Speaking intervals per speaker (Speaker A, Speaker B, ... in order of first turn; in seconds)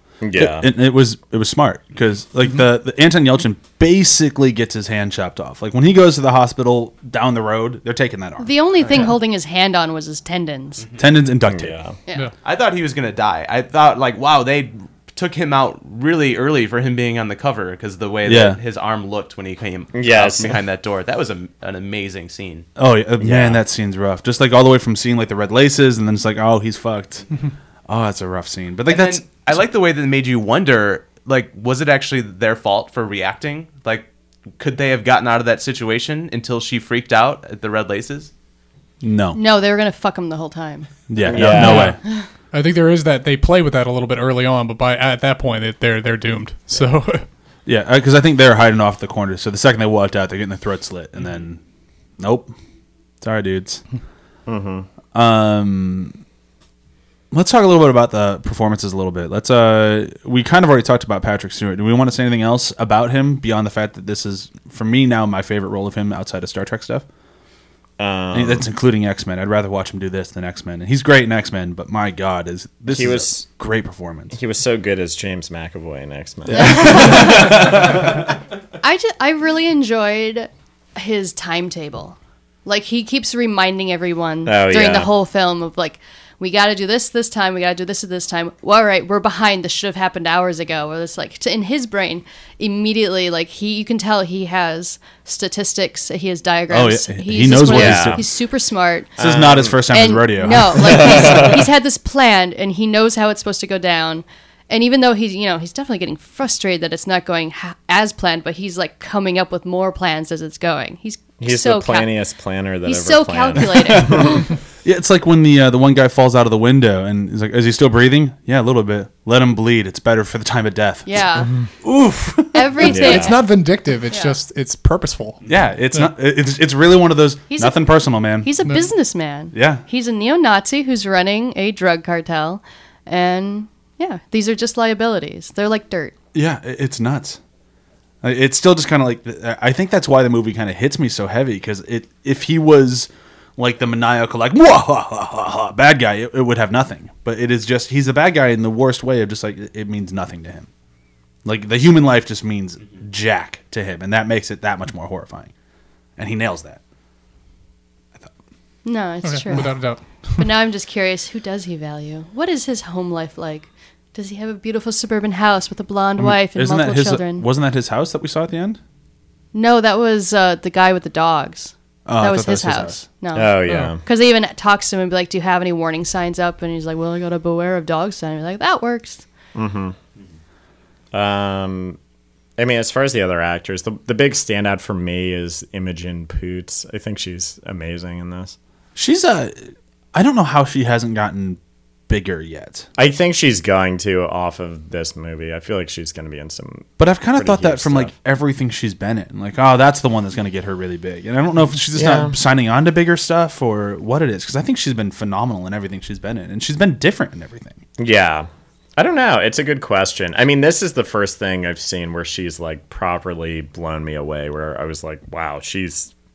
Speaker A: 0.2-0.7, 11.5-12.0, 19.9-20.6, 41.2-42.0, 54.5-54.9, 68.0-68.7, 72.9-73.5, 74.3-78.0, 84.5-85.1, 97.4-98.2, 99.2-99.8, 100.7-101.6, 111.4-114.5, 122.9-123.4, 173.3-174.0, 179.6-180.0, 181.1-182.0, 182.6-188.6, 193.0-198.1, 201.9-202.3, 208.0-216.1
Speaker B: 0.4-8.5, 11.0-11.8, 18.2-18.6, 22.8-27.2, 27.9-29.6, 39.0-39.4, 41.1-42.0, 47.6-51.6, 52.2-52.5, 53.2-53.8, 55.1-56.2, 57.3-67.0, 68.3-74.4, 76.5-77.8, 96.7-98.2, 99.2-101.4, 114.0-114.3, 114.8-123.1, 125.5-128.5, 129.5-129.8, 136.3-137.4, 138.2-150.7, 151.4-155.5, 156.2-156.8, 166.2-168.8, 172.1-173.0, 189.0-192.9, 197.0-207.8
Speaker C: 8.4-10.8, 39.3-40.9, 76.5-77.7, 78.8-99.1, 99.9-112.1, 112.8-114.4, 121.1-121.5, 122.5-123.4, 124.1-124.3, 127.5-136.1, 158.8-167.5, 169.5-179.2
Speaker D: 12.4-22.7, 28.9-34.1, 34.6-38.3
Speaker E: 41.5-42.0, 42.5-47.2, 122.9-126.1, 159.2-160.5, 173.7-173.9